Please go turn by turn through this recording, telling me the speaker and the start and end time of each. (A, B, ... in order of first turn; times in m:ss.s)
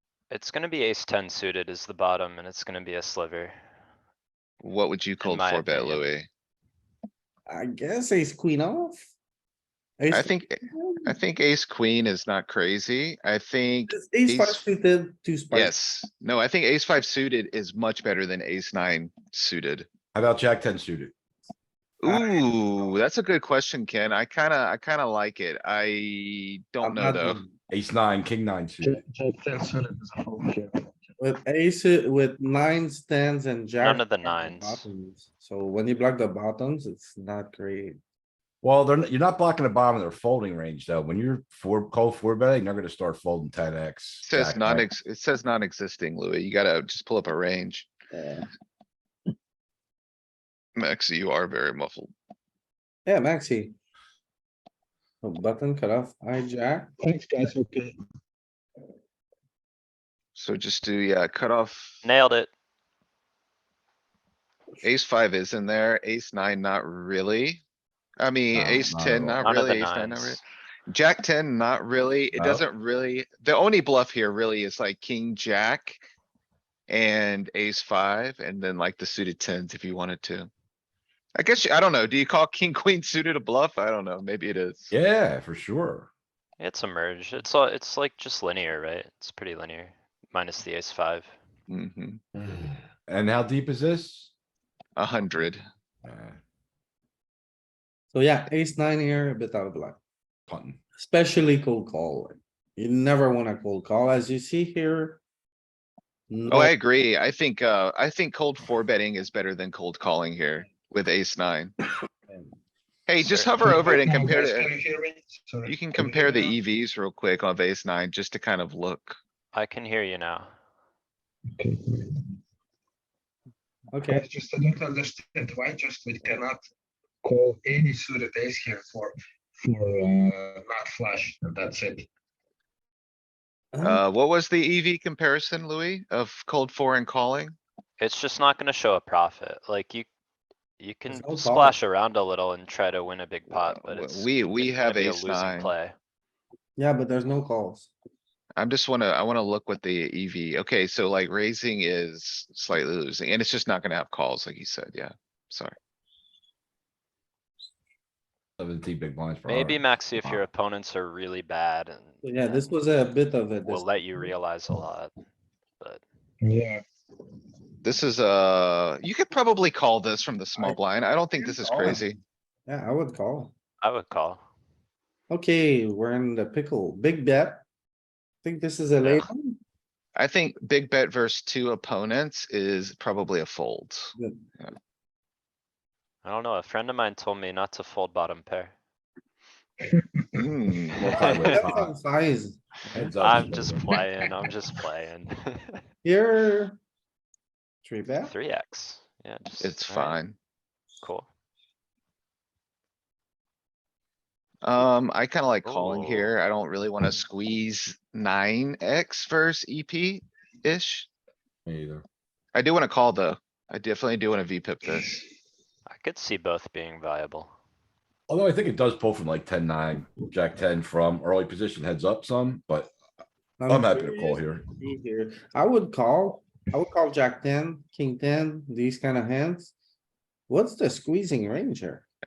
0:00.3-0:03.5 A
0:04.6-0:06.3 B
0:05.2-0:06.1 A
0:07.5-0:09.0 C
0:10.0-0:11.2 C
0:10.1-0:14.6 B
0:13.9-0:15.7 C
0:15.5-0:19.9 B
0:20.1-0:21.1 D
0:22.0-0:27.4 B
0:22.0-0:22.3 C
0:26.8-0:27.5 C
0:27.7-0:29.0 D
0:28.8-0:30.9 E
0:31.2-0:38.0 C
0:33.8-0:34.9 A
0:38.6-0:44.8 D
0:44.2-0:47.9 B
0:48.1-0:48.5 C
0:50.8-0:52.1 B
0:53.0-0:53.7 C
0:55.2-0:56.9 C
0:57.0-0:58.0 E
1:00.3-1:02.0 B
1:02.0-1:02.5 A
1:04.8-1:07.6 B
1:08.2-1:16.0 B
1:08.5-1:09.4 D
1:09.4-1:10.4 A
1:12.3-1:12.6 D
1:16.9-1:20.5 B
1:21.4-1:24.9 B
1:24.9-1:26.1 D
1:26.6-1:31.3 A
1:31.7-1:32.2 B
1:33.1-1:34.3 D
1:35.0-1:35.6 B
1:36.0-1:36.4 D
1:38.1-1:40.0 C
1:40.5-1:40.8 D
1:41.0-1:45.2 C
1:46.3-1:46.7 C
1:46.5-1:51.7 B
1:52.3-1:52.5 C
1:53.1-1:54.7 B
1:53.3-1:56.6 E
1:55.6-1:59.2 B
1:59.5-2:00.5 A
2:01.6-2:02.3 E
2:03.9-2:04.2 C
2:04.1-2:06.6 E
2:07.2-2:12.1 E
2:13.7-2:14.0 C
2:13.8-2:17.6 B
2:18.0-2:20.0 A
2:20.8-2:25.9 A
2:21.1-2:21.8 C
2:23.5-2:25.7 B
2:26.8-2:27.9 C
2:28.6-2:35.7 B
2:38.6-2:40.4 D
2:39.5-2:42.7 A
2:42.2-2:44.3 C
2:43.6-2:45.1 A
2:46.4-2:46.8 E
2:47.8-2:52.2 B
2:51.4-2:52.1 C
2:52.7-2:53.5 C
2:53.8-2:54.4 A
2:55.3-2:57.6 C
2:58.4-2:59.6 C
3:00.2-3:04.7 B
3:04.2-3:04.4 C
3:06.2-3:08.7 A
3:09.8-3:10.5 E
3:10.4-3:11.0 B
3:10.9-3:12.0 D
3:11.0-3:11.7 A
3:11.2-3:13.1 C
3:12.9-3:13.8 D
3:13.2-3:15.8 A
3:16.0-3:16.8 C
3:17.8-3:18.3 C
3:18.2-3:20.2 A
3:19.6-3:20.4 B
3:21.0-3:21.3 A
3:24.6-3:31.1 B
3:25.6-3:26.3 A
3:31.6-3:32.0 D
3:32.5-3:35.2 B
3:35.9-3:37.5 A
3:38.3-3:42.9 D
3:43.6-3:49.7 C
3:43.7-3:44.6 D
3:50.5-3:52.0 C